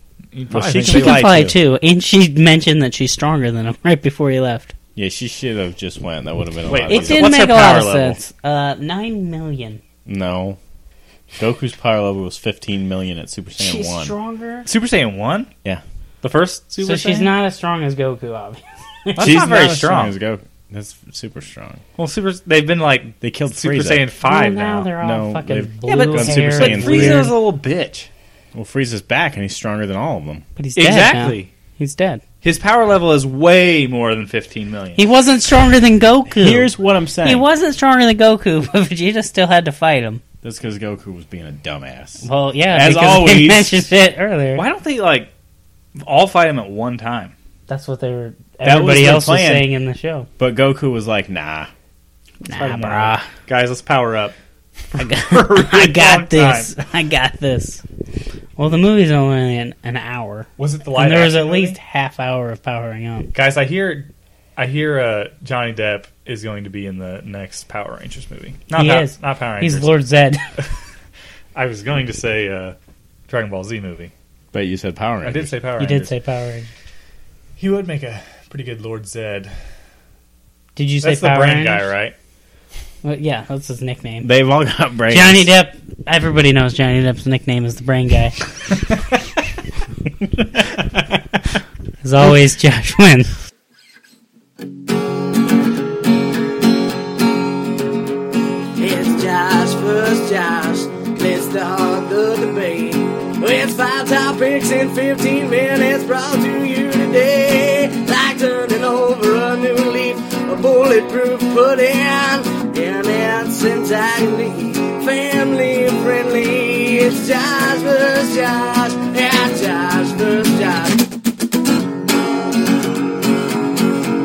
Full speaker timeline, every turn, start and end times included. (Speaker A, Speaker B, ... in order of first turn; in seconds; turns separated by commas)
Speaker A: 0.3-1.5, Speaker B: 0.5-1.6, Speaker C: 0.8-4.7, Speaker B: 5.0-7.3, Speaker A: 6.7-8.2, Speaker C: 6.9-9.8, Speaker B: 10.1-10.6, Speaker B: 11.4-14.1, Speaker C: 13.6-14.7, Speaker A: 14.7-15.5, Speaker A: 16.2-17.3, Speaker C: 16.8-19.3, Speaker A: 19.1-20.1, Speaker B: 19.2-21.8, Speaker A: 22.0-24.9, Speaker B: 23.2-24.1, Speaker C: 24.2-27.3, Speaker B: 25.0-27.3, Speaker A: 25.9-28.1, Speaker B: 28.5-30.4, Speaker C: 30.6-32.2, Speaker A: 30.8-31.5, Speaker A: 32.4-35.0, Speaker C: 35.0-36.7, Speaker B: 36.3-37.5, Speaker C: 37.2-40.2, Speaker B: 40.4-43.9, Speaker C: 42.2-44.6, Speaker A: 44.5-45.3, Speaker A: 46.0-47.3, Speaker C: 47.7-50.3, Speaker B: 48.6-49.7, Speaker B: 50.4-51.7, Speaker C: 52.4-53.3, Speaker A: 52.5-54.4, Speaker A: 54.9-56.7, Speaker C: 55.0-57.8, Speaker C: 58.6-63.3, Speaker A: 60.6-61.8, Speaker A: 63.3-69.9, Speaker C: 68.7-70.4, Speaker A: 71.5-72.8, Speaker A: 73.3-74.1, Speaker B: 74.5-75.5, Speaker A: 75.2-76.1, Speaker C: 75.8-76.7, Speaker A: 77.6-79.5, Speaker C: 80.8-81.9, Speaker A: 81.0-82.1, Speaker C: 83.0-84.3, Speaker B: 84.2-85.5, Speaker C: 85.1-88.3, Speaker C: 92.0-93.4, Speaker D: 98.8-121.0